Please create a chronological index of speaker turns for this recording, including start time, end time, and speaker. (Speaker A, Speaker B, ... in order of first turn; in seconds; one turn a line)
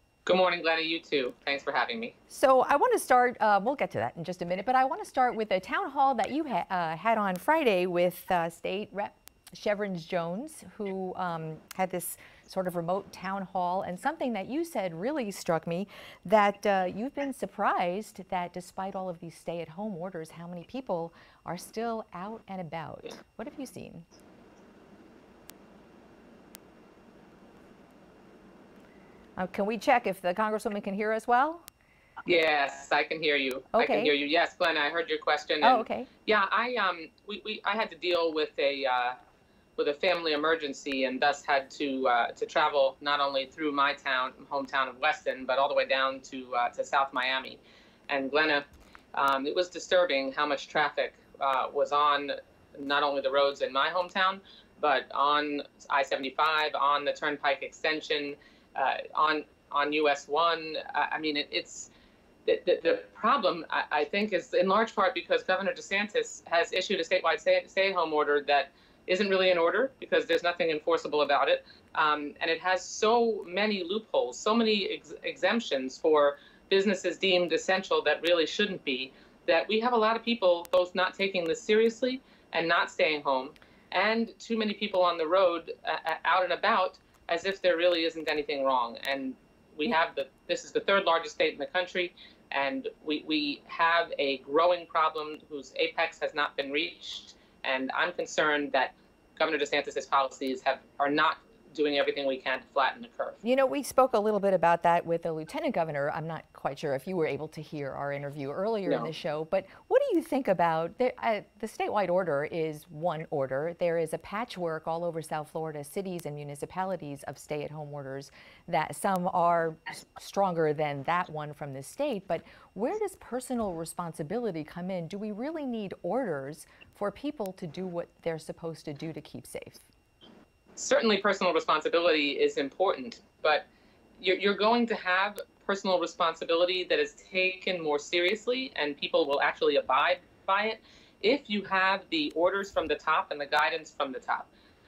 Speaker A: 0.2-2.2
Speaker B: 2.3-24.1
Speaker B: 29.4-31.7
Speaker A: 32.3-39.2
Speaker B: 33.7-34.1
Speaker B: 35.6-36.1
Speaker A: 39.8-61.9
Speaker A: 62.5-103.4
Speaker B: 103.4-129.9
Speaker A: 108.9-109.1
Speaker A: 130.8-133.7
Speaker A: 134.2-144.5